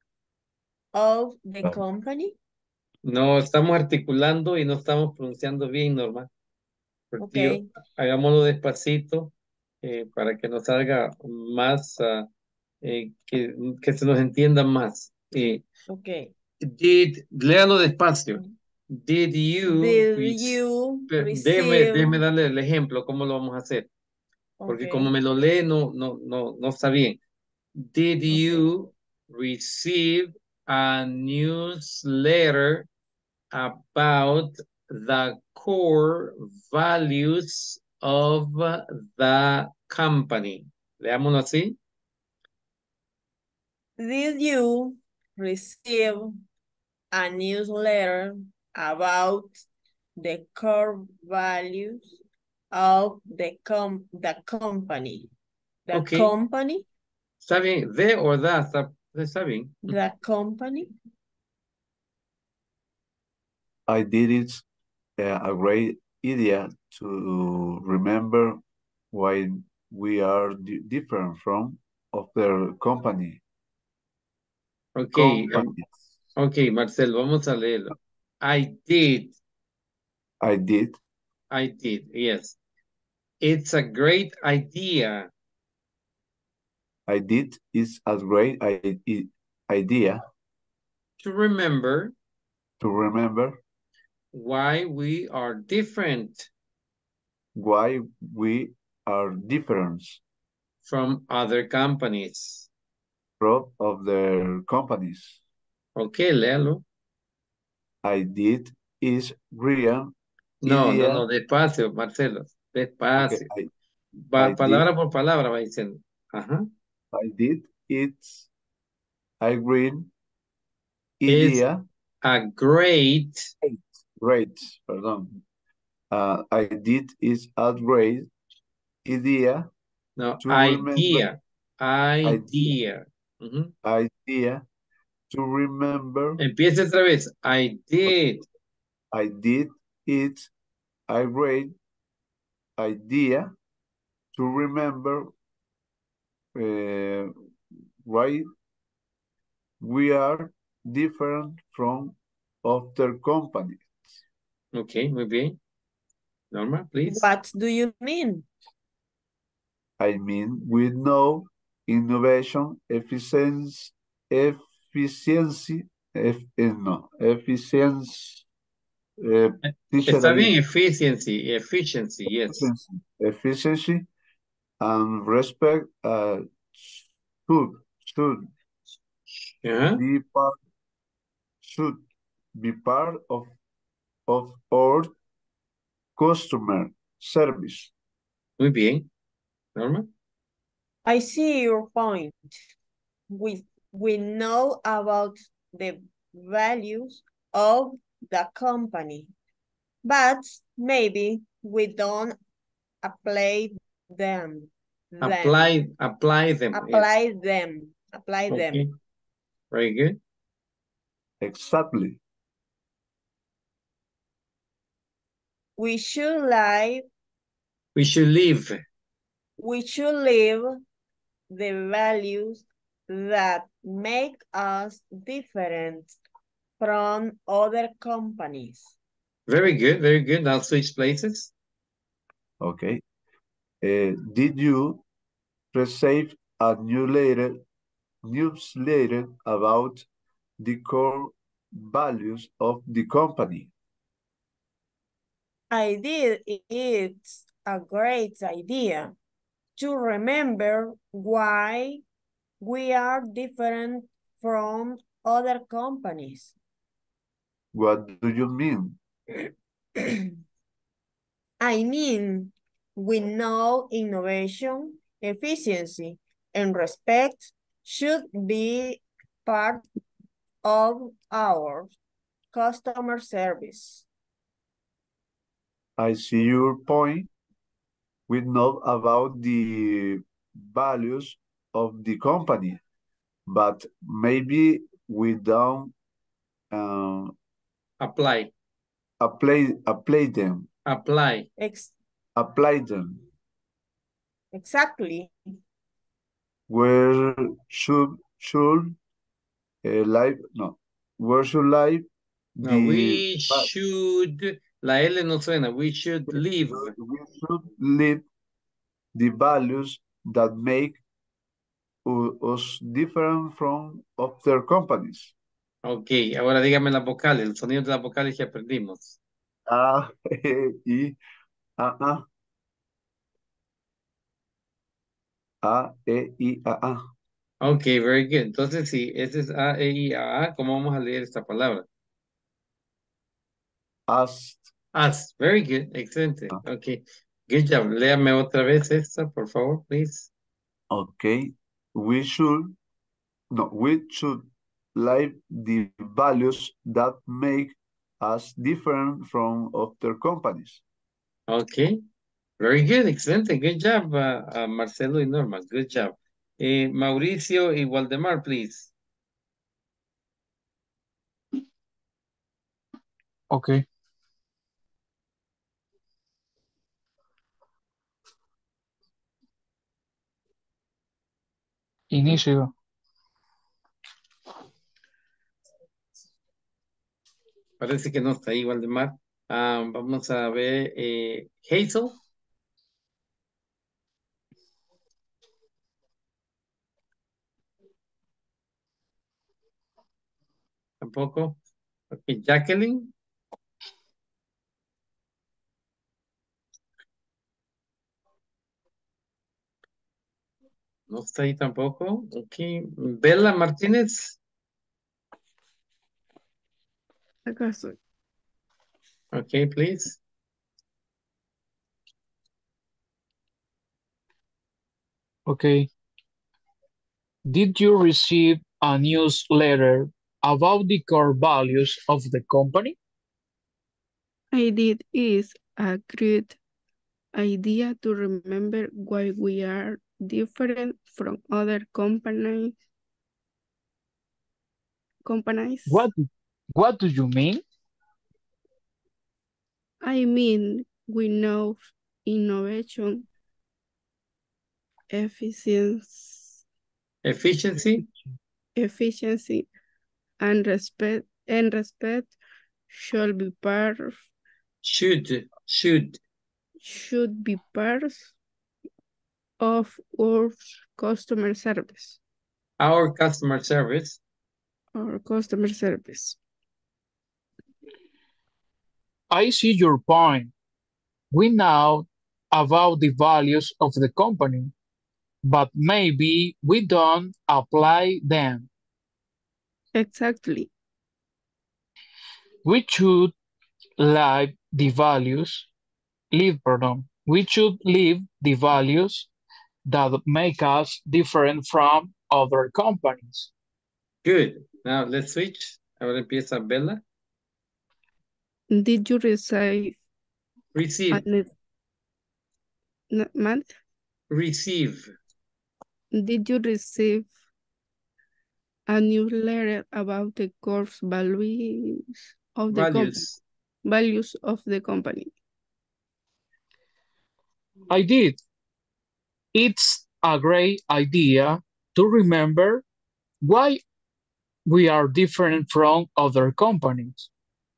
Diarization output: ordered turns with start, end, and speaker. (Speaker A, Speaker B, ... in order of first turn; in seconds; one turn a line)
Speaker A: 0.9-2.4
Speaker B: 3.0-6.3
Speaker B: 7.1-12.3
Speaker A: 7.2-7.7
Speaker B: 12.8-15.6
Speaker A: 15.9-16.3
Speaker B: 16.6-23.9
Speaker A: 19.7-22.2
Speaker A: 24.6-25.1
Speaker B: 24.7-27.2
Speaker B: 27.8-32.9
Speaker B: 33.5-41.8
Speaker A: 44.0-46.4
Speaker A: 47.1-49.6
Speaker A: 50.2-52.2
Speaker A: 52.7-55.3
Speaker A: 55.9-56.9
Speaker B: 55.9-56.3
Speaker B: 57.4-60.0
Speaker A: 59.9-60.9
Speaker C: 63.9-64.6
Speaker C: 65.2-68.6
Speaker C: 69.1-73.4
Speaker B: 75.0-75.7
Speaker C: 75.1-76.0
Speaker B: 76.4-79.4
Speaker C: 80.4-81.0
Speaker B: 81.5-82.6
Speaker B: 83.4-85.3
Speaker C: 87.1-90.2
Speaker B: 91.2-92.1
Speaker C: 92.8-93.6
Speaker B: 94.3-96.5
Speaker C: 97.5-100.2
Speaker B: 100.8-102.7
Speaker C: 103.4-105.4
Speaker B: 106.0-106.8
Speaker C: 108.0-110.1
Speaker B: 110.6-113.5
Speaker C: 110.6-111.3
Speaker C: 113.2-113.7
Speaker B: 114.3-116.7
Speaker C: 114.4-114.9
Speaker C: 117.1-118.5
Speaker C: 119.4-120.1
Speaker C: 121.2-121.8
Speaker B: 121.3-121.6
Speaker B: 122.2-123.5
Speaker C: 123.6-125.4
Speaker C: 126.1-128.3
Speaker C: 129.0-129.7
Speaker B: 130.2-133.7
Speaker C: 130.4-131.3
Speaker C: 132.2-132.8
Speaker C: 133.8-134.6
Speaker C: 135.3-136.4
Speaker B: 136.4-138.4
Speaker C: 139.1-140.5
Speaker C: 141.1-141.8
Speaker C: 142.8-143.5
Speaker C: 144.3-145.3
Speaker C: 146.5-147.3
Speaker C: 148.0-148.5
Speaker C: 149.8-154.2
Speaker B: 154.7-155.6
Speaker B: 156.5-157.3
Speaker A: 157.1-158.5
Speaker C: 160.0-168.5
Speaker C: 169.2-170.5
Speaker B: 170.1-172.7
Speaker C: 172.5-174.1
Speaker C: 174.8-178.5
Speaker B: 179.6-180.0
Speaker C: 180.0-180.6
Speaker C: 181.6-183.5
Speaker C: 184.3-185.1
Speaker C: 186.2-187.9
Speaker B: 188.6-189.1
Speaker B: 189.8-190.1
Speaker A: 191.1-192.6
Speaker A: 193.3-199.3
Speaker A: 200.0-202.4
Speaker A: 203.0-205.7
Speaker B: 205.2-207.1
Speaker A: 206.7-208.8
Speaker B: 208.5-208.9
Speaker B: 209.7-210.2
Speaker C: 211.4-212.2
Speaker A: 215.8-217.1
Speaker B: 217.9-218.8
Speaker A: 219.6-220.8
Speaker A: 221.5-226.1
Speaker A: 226.8-228.9
Speaker B: 229.5-231.5
Speaker C: 232.6-233.0
Speaker C: 233.8-235.0
Speaker C: 235.7-237.6
Speaker C: 238.2-240.1
Speaker C: 240.6-243.7
Speaker A: 245.7-249.2
Speaker A: 249.8-252.0
Speaker A: 252.6-256.5
Speaker C: 257.7-259.0
Speaker A: 261.6-269.9
Speaker A: 270.6-271.9
Speaker A: 272.5-274.1
Speaker C: 276.0-277.3
Speaker C: 278.3-282.8
Speaker C: 283.5-285.9
Speaker C: 286.7-287.3
Speaker B: 288.0-288.5
Speaker C: 289.2-290.7
Speaker B: 290.9-291.5
Speaker A: 291.6-291.9
Speaker C: 292.4-293.2
Speaker A: 294.5-295.3
Speaker C: 296.7-299.0
Speaker C: 299.8-303.7
Speaker B: 302.6-306.9
Speaker C: 306.3-308.2
Speaker C: 309.1-311.0
Speaker C: 312.1-315.3
Speaker B: 315.8-319.2
Speaker C: 319.7-321.2
Speaker C: 321.8-322.3
Speaker C: 325.6-327.1
Speaker B: 327.6-331.9
Speaker C: 334.1-334.7
Speaker B: 334.9-340.3
Speaker C: 340.9-342.8
Speaker C: 343.5-350.8
Speaker B: 351.5-352.0
Speaker B: 352.6-358.9
Speaker D: 363.5-363.9
Speaker D: 372.1-372.7
Speaker B: 377.8-382.2
Speaker B: 391.0-391.6
Speaker B: 392.1-393.1
Speaker B: 401.1-404.4
Speaker E: 407.5-408.0
Speaker B: 409.3-410.2
Speaker D: 415.5-415.9
Speaker D: 417.5-423.0
Speaker E: 424.5-426.6
Speaker E: 427.4-432.8
Speaker E: 435.2-436.1
Speaker D: 435.9-437.6
Speaker E: 440.0-443.3
Speaker E: 445.1-446.6
Speaker B: 447.2-448.0
Speaker E: 448.8-449.7
Speaker E: 450.4-452.3
Speaker E: 452.9-454.3
Speaker B: 454.8-456.2
Speaker E: 456.8-458.3
Speaker E: 459.6-462.2
Speaker B: 462.8-464.2
Speaker E: 465.0-466.4
Speaker D: 469.3-470.5
Speaker D: 471.3-474.7
Speaker D: 475.4-478.7
Speaker E: 479.9-480.7
Speaker D: 482.6-483.3
Speaker D: 484.0-485.7
Speaker D: 486.3-489.3
Speaker D: 489.9-493.5
Speaker B: 494.2-497.0
Speaker E: 498.7-500.0
Speaker B: 500.7-501.3
Speaker E: 501.1-501.5
Speaker E: 503.1-503.8
Speaker B: 504.3-505.1
Speaker E: 506.1-507.3
Speaker E: 508.9-513.3
Speaker B: 512.7-513.4
Speaker E: 513.9-515.3
Speaker D: 517.9-518.4
Speaker D: 519.5-522.8
Speaker D: 523.4-523.8
Speaker D: 524.7-527.3